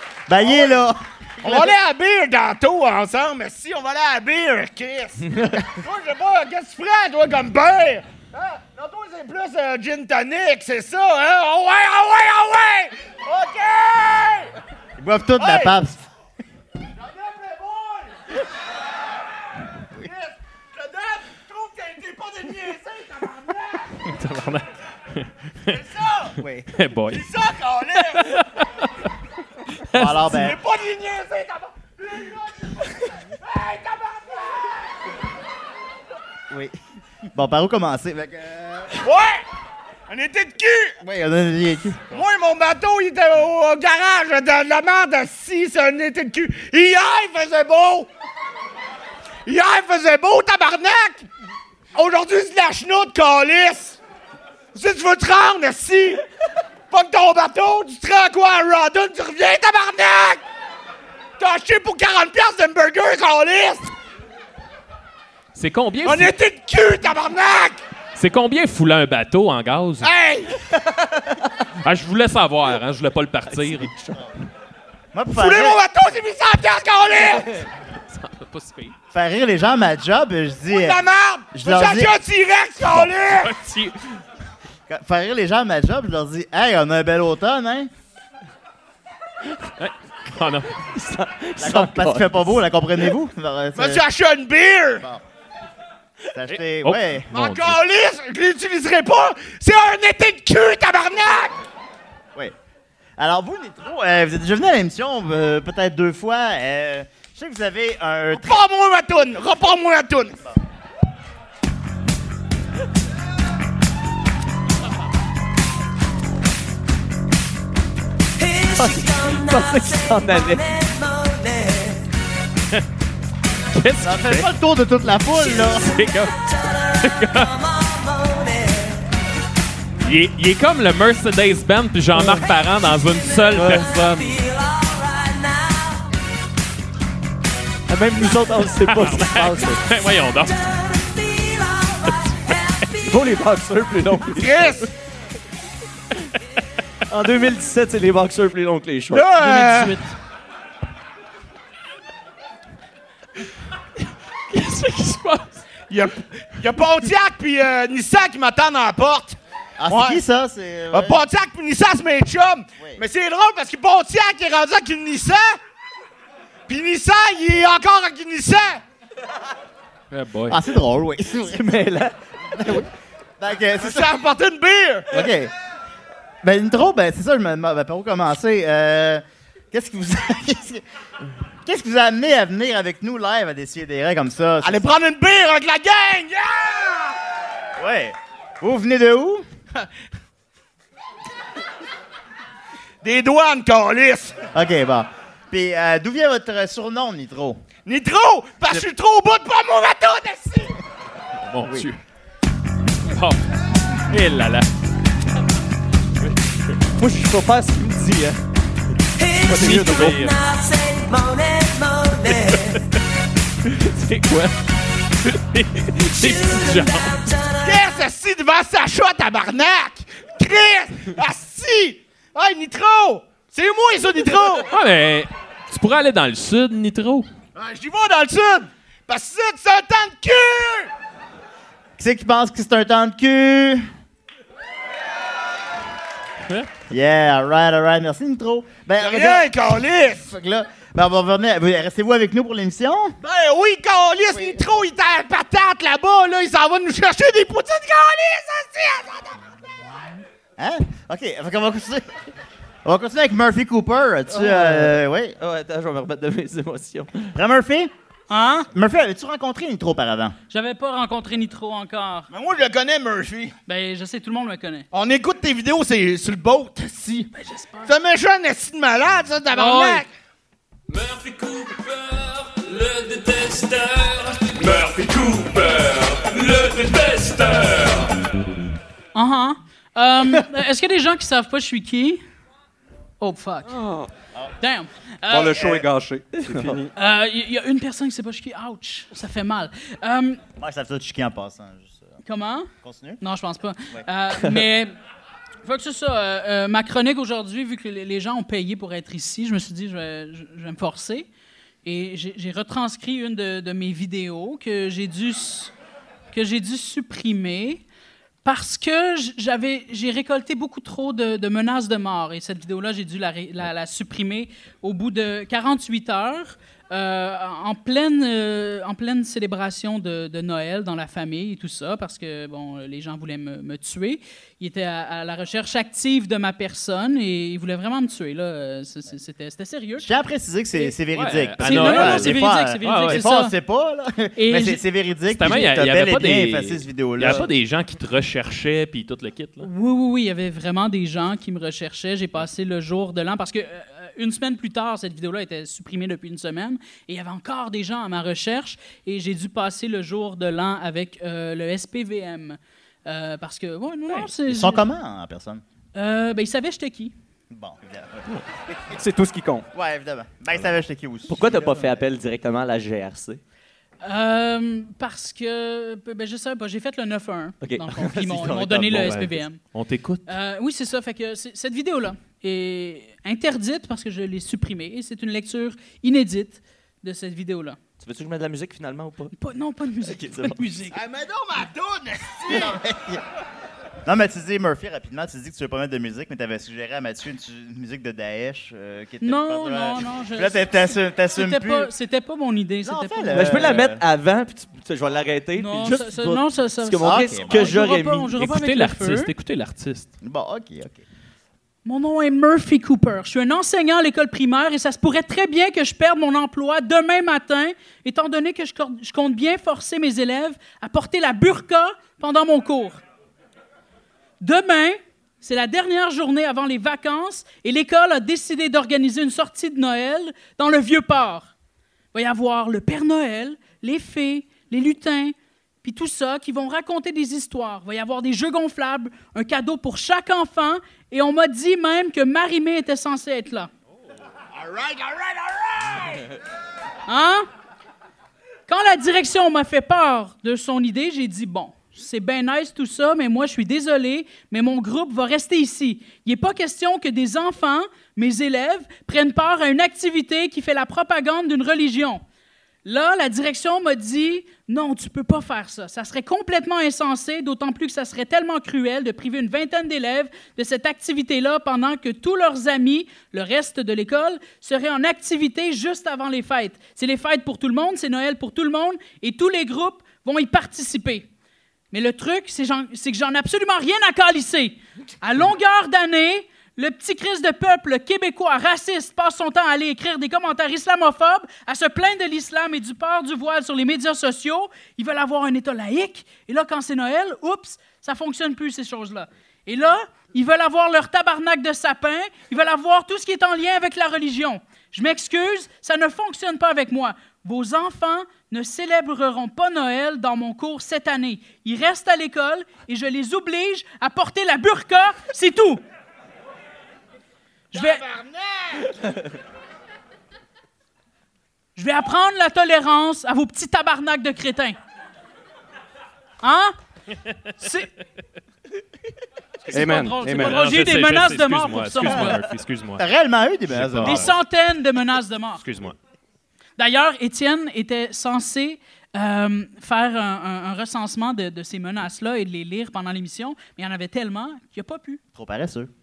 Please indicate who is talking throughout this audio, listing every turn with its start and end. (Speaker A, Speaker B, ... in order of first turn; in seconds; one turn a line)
Speaker A: 0.3-1.8
Speaker B: 0.4-0.8
Speaker B: 1.4-14.5
Speaker A: 15.0-16.1
Speaker B: 15.4-15.8
Speaker B: 17.0-18.1
Speaker B: 20.0-23.9
Speaker C: 24.0-25.8
Speaker B: 25.6-26.4
Speaker A: 26.4-26.7
Speaker C: 26.7-27.3
Speaker B: 27.1-28.4
Speaker C: 28.1-28.9
Speaker C: 29.9-30.3
Speaker A: 29.9-30.6
Speaker B: 30.2-32.9
Speaker B: 33.4-34.7
Speaker A: 36.5-36.8
Speaker A: 37.3-39.0
Speaker B: 39.0-39.4
Speaker B: 40.1-41.0
Speaker A: 41.0-42.0
Speaker B: 42.1-48.1
Speaker B: 49.5-51.3
Speaker B: 51.9-54.0
Speaker B: 54.7-56.2
Speaker B: 56.9-60.4
Speaker B: 61.4-63.9
Speaker C: 65.5-66.3
Speaker B: 66.0-67.8
Speaker C: 68.2-70.1
Speaker B: 70.0-70.8
Speaker C: 71.8-73.9
Speaker D: 73.5-74.3
Speaker A: 75.1-75.8
Speaker B: 75.3-77.6
Speaker C: 78.1-78.9
Speaker A: 79.1-82.1
Speaker B: 80.7-83.5
Speaker A: 82.8-83.1
Speaker C: 83.3-84.2
Speaker A: 84.9-87.9
Speaker C: 89.8-90.7
Speaker D: 90.8-92.6
Speaker A: 91.6-94.0
Speaker B: 93.7-95.1
Speaker A: 96.3-97.3
Speaker C: 96.5-97.8
Speaker B: 97.3-101.5
Speaker A: 103.2-108.5
Speaker B: 108.3-110.4
Speaker D: 118.6-120.8
Speaker C: 123.7-124.5
Speaker A: 124.0-125.9
Speaker C: 125.8-127.6
Speaker C: 130.0-134.3
Speaker D: 132.1-132.4
Speaker D: 133.5-133.9
Speaker D: 137.9-139.8
Speaker C: 138.9-140.7
Speaker C: 142.2-142.5
Speaker D: 143.0-144.6
Speaker B: 144.3-144.9
Speaker D: 147.1-149.3
Speaker B: 149.1-150.0
Speaker E: 149.4-149.9
Speaker C: 154.5-155.7
Speaker B: 155.9-160.2
Speaker A: 159.8-161.2
Speaker B: 160.9-165.6
Speaker B: 166.7-168.8
Speaker C: 170.1-170.6
Speaker A: 170.5-171.7
Speaker D: 171.4-172.1
Speaker A: 172.5-172.9
Speaker A: 173.4-174.1
Speaker B: 173.8-175.3
Speaker A: 175.1-175.5
Speaker A: 176.4-180.8
Speaker A: 181.6-184.9
Speaker B: 184.6-187.2
Speaker A: 187.8-189.4
Speaker B: 193.0-194.4
Speaker A: 194.5-197.6
Speaker B: 197.8-200.8
Speaker C: 201.5-202.0
Speaker A: 201.6-201.9
Speaker C: 203.1-203.4
Speaker C: 204.1-204.7
Speaker D: 207.0-208.4
Speaker F: 209.5-210.3
Speaker C: 209.5-210.3
Speaker C: 213.6-214.6
Speaker C: 215.2-217.2
Speaker B: 217.6-224.7
Speaker C: 224.7-227.3
Speaker B: 227.5-230.9
Speaker A: 232.0-233.9
Speaker A: 236.9-243.2
Speaker B: 239.0-240.2
Speaker B: 243.2-249.4
Speaker A: 244.3-244.6
Speaker A: 250.6-252.1
Speaker A: 252.8-255.3
Speaker D: 254.3-257.4
Speaker A: 257.3-257.9
Speaker E: 258.3-258.7
Speaker A: 258.7-260.4
Speaker E: 260.5-262.3
Speaker B: 262.3-263.6
Speaker E: 263.7-264.9
Speaker B: 264.9-267.3
Speaker E: 267.3-267.9
Speaker B: 267.8-270.1
Speaker E: 269.5-270.1
Speaker G: 270.9-278.0
Speaker E: 279.1-282.2
Speaker E: 283.2-283.8
Speaker F: 283.7-284.1
Speaker E: 284.6-285.7
Speaker F: 285.3-286.9
Speaker D: 286.4-286.8
Speaker E: 286.9-290.4
Speaker A: 290.6-292.2
Speaker E: 292.2-294.9
Speaker A: 292.8-293.2
Speaker E: 295.6-301.3
Speaker E: 301.8-305.7
Speaker E: 306.3-307.8
Speaker E: 308.4-330.1
Speaker A: 330.0-337.5
Speaker C: 331.1-333.2
Speaker E: 331.6-333.5
Speaker E: 334.4-334.8
Speaker C: 335.3-339.7
Speaker E: 339.6-354.9
Speaker A: 354.5-355.6
Speaker E: 355.9-357.1
Speaker A: 357.5-358.3
Speaker F: 358.9-359.7
Speaker A: 359.7-361.6
Speaker D: 361.3-363.4
Speaker E: 364.0-369.6
Speaker D: 367.6-369.4
Speaker C: 369.7-370.3
Speaker E: 370.2-377.8
Speaker D: 378.0-379.3
Speaker E: 379.4-381.0
Speaker D: 380.0-380.7
Speaker B: 380.9-382.8
Speaker A: 382.5-383.2
Speaker A: 384.0-391.9
Speaker E: 389.2-393.8
Speaker A: 392.8-394.0
Speaker D: 393.3-398.3
Speaker E: 395.6-399.3
Speaker A: 397.0-397.8
Speaker C: 398.4-400.1
Speaker A: 400.2-401.0
Speaker E: 401.8-413.0
Speaker E: 414.4-421.5
Speaker E: 422.1-433.7
Speaker B: 434.5-436.2
Speaker E: 437.1-437.4
Speaker E: 438.7-452.2
Speaker E: 452.8-471.2
Speaker E: 471.9-505.8
Speaker E: 507.7-508.1
Speaker B: 507.7-508.9
Speaker E: 511.8-514.8
Speaker E: 516.4-516.7
Speaker E: 517.6-517.9
Speaker E: 519.7-522.4
Speaker F: 519.7-520.6
Speaker C: 520.2-523.0
Speaker A: 523.0-524.4
Speaker C: 523.7-524.3
Speaker E: 524.0-525.6
Speaker C: 525.6-526.0
Speaker E: 526.8-535.2
Speaker A: 535.3-535.9